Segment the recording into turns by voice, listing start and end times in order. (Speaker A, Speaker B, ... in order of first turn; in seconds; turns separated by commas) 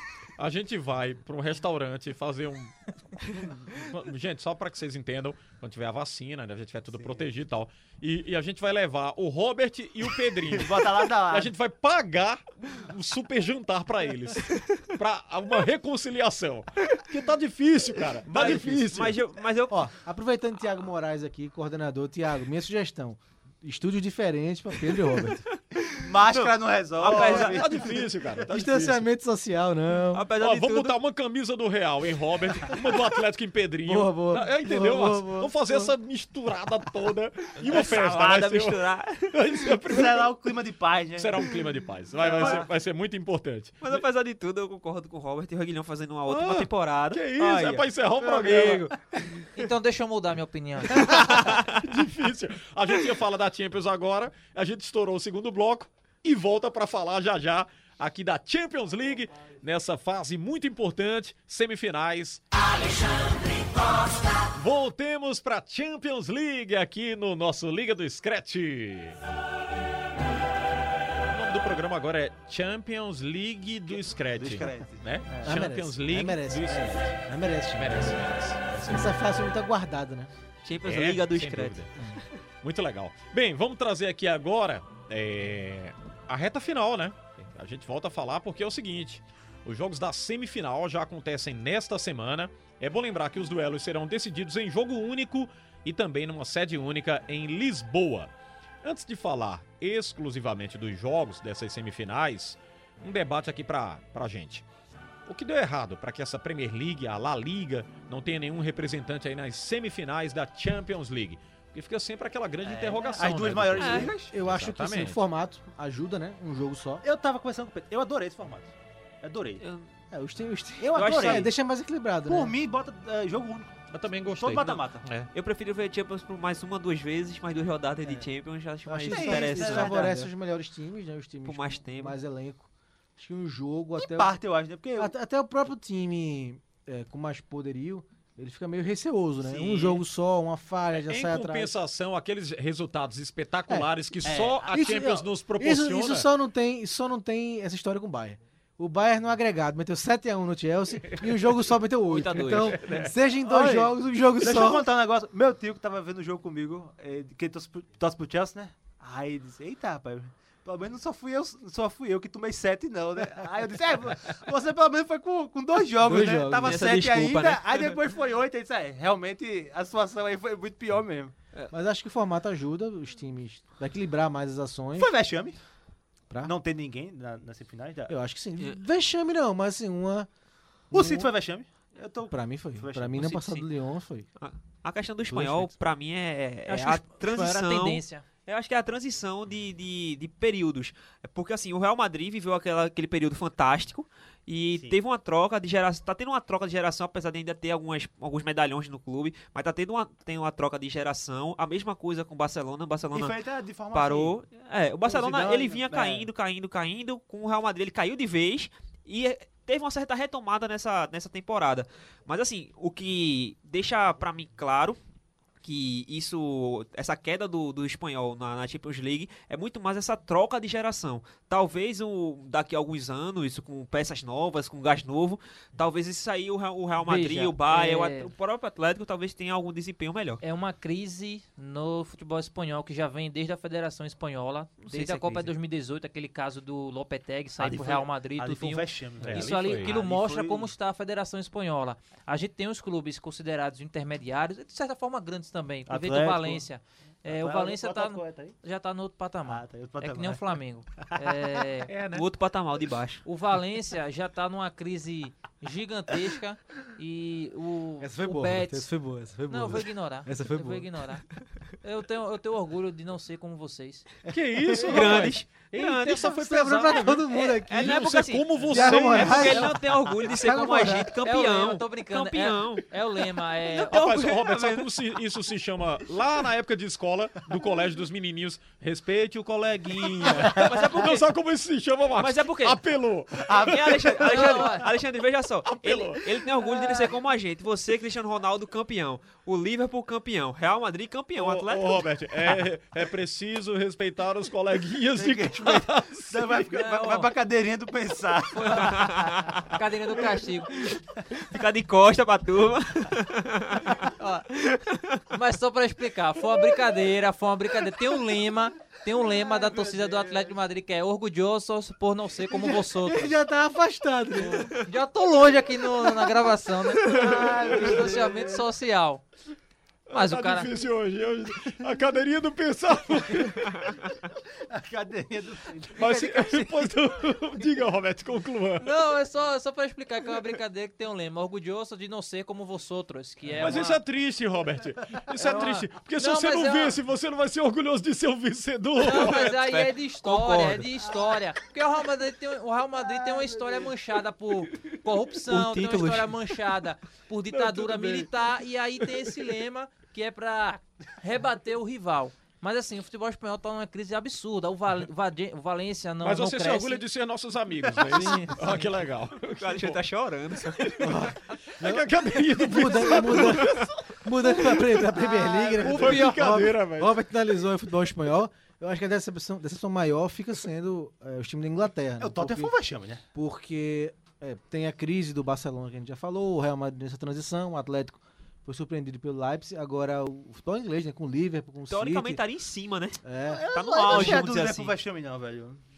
Speaker A: 0.4-19.2, Speaker B: 6.9-7.2, Speaker B: 10.4-11.5, Speaker C: 18.3-19.9, Speaker D: 19.7-25.4, Speaker B: 26.0-28.0, Speaker C: 26.3-27.6, Speaker A: 27.0-29.0, Speaker D: 28.5-30.3, Speaker C: 30.1-31.0, Speaker A: 30.3-40.3, Speaker D: 33.9-35.9, Speaker C: 37.6-39.4, Speaker B: 39.9-41.5, Speaker A: 41.1-43.8, Speaker B: 42.2-42.6, Speaker C: 42.4-42.6, Speaker C: 43.8-48.9, Speaker A: 46.3-48.9, Speaker B: 47.4-48.8, Speaker E: 49.5-51.0, Speaker A: 51.0-62.4, Speaker C: 51.1-51.8, Speaker A: 64.4-69.2, Speaker A: 71.2-77.1, Speaker B: 73.9-75.7, Speaker D: 75.4-78.1, Speaker A: 77.7-79.1, Speaker D: 78.9-80.3, Speaker C: 80.6-82.2, Speaker A: 80.8-81.9, Speaker A: 82.6-98.3, Speaker A: 98.8-104.6, Speaker A: 105.2-115.2, Speaker B: 112.6-114.3, Speaker C: 113.8-114.1, Speaker D: 114.3-117.0, Speaker B: 117.0-119.6, Speaker C: 119.6-119.9, Speaker D: 120.1-122.5, Speaker B: 120.8-121.5, Speaker C: 120.9-121.5, Speaker B: 122.3-125.1, Speaker A: 123.9-125.3, Speaker C: 124.5-124.8, Speaker C: 125.3-130.0, Speaker D: 128.8-134.3, Speaker B: 129.1-130.3, Speaker C: 131.4-132.2, Speaker B: 134.0-135.1, Speaker D: 135.0-141.7, Speaker B: 139.4-140.0, Speaker A: 140.9-146.3, Speaker B: 144.2-145.1, Speaker D: 144.7-154.9, Speaker C: 152.1-153.1, Speaker A: 152.6-153.1, Speaker B: 153.4-171.3, Speaker D: 166.0-166.8, Speaker C: 166.6-168.0, Speaker D: 171.7-175.1, Speaker B: 175.0-175.6, Speaker B: 176.4-178.1, Speaker D: 178.1-180.3, Speaker D: 180.9-181.3, Speaker B: 180.9-183.4, Speaker D: 182.3-184.3, Speaker C: 184.4-203.4, Speaker D: 185.3-185.7, Speaker E: 186.7-188.2, Speaker B: 203.1-204.3, Speaker C: 203.9-215.0, Speaker B: 205.0-206.3, Speaker C: 215.6-230.4, Speaker E: 227.0-228.3, Speaker E: 230.4-251.9, Speaker C: 234.8-235.5, Speaker B: 237.6-240.7, Speaker A: 239.2-240.0, Speaker B: 245.9-246.6, Speaker B: 247.2-248.6, Speaker B: 249.4-250.6, Speaker A: 251.9-252.2, Speaker C: 252.1-253.2, Speaker E: 253.2-258.9, Speaker D: 258.0-260.9, Speaker E: 259.5-261.2, Speaker E: 261.8-264.1, Speaker A: 264.3-269.8, Speaker C: 264.7-272.9, Speaker D: 266.1-268.1, Speaker D: 268.7-271.1, Speaker E: 271.2-274.0, Speaker C: 273.8-275.0, Speaker A: 273.9-283.9, Speaker C: 280.6-281.2, Speaker C: 282.2-282.8, Speaker B: 283.5-284.9, Speaker C: 283.5-292.6, Speaker E: 284.2-284.9, Speaker A: 285.6-286.4, Speaker A: 291.4-296.7, Speaker B: 295.1-299.5, Speaker E: 296.7-297.3, Speaker E: 298.5-299.1, Speaker C: 298.7-299.6, Speaker E: 299.6-300.8, Speaker C: 300.9-305.2, Speaker E: 304.1-304.4, Speaker E: 305.3-313.3, Speaker B: 309.6-310.4, Speaker D: 312.8-314.7, Speaker E: 314.7-319.2, Speaker B: 317.0-318.7, Speaker A: 320.1-323.9, Speaker E: 320.1-320.7, Speaker B: 324.7-326.9, Speaker A: 325.9-328.9, Speaker E: 328.8-334.0, Speaker A: 333.5-339.4, Speaker E: 335.4-337.0, Speaker E: 339.0-357.0, Speaker C: 339.0-340.9, Speaker C: 345.5-346.4, Speaker A: 347.5-348.3, Speaker A: 356.2-360.0, Speaker E: 358.1-358.8, Speaker C: 359.5-361.1, Speaker A: 360.6-365.1, Speaker D: 361.0-372.7, Speaker C: 363.4-363.8, Speaker B: 365.4-365.8, Speaker A: 365.7-367.1, Speaker E: 365.8-366.5, Speaker B: 372.2-373.2, Speaker D: 373.3-382.4, Speaker C: 381.9-383.2, Speaker D: 383.2-384.4, Speaker B: 383.5-385.8, Speaker C: 383.7-384.9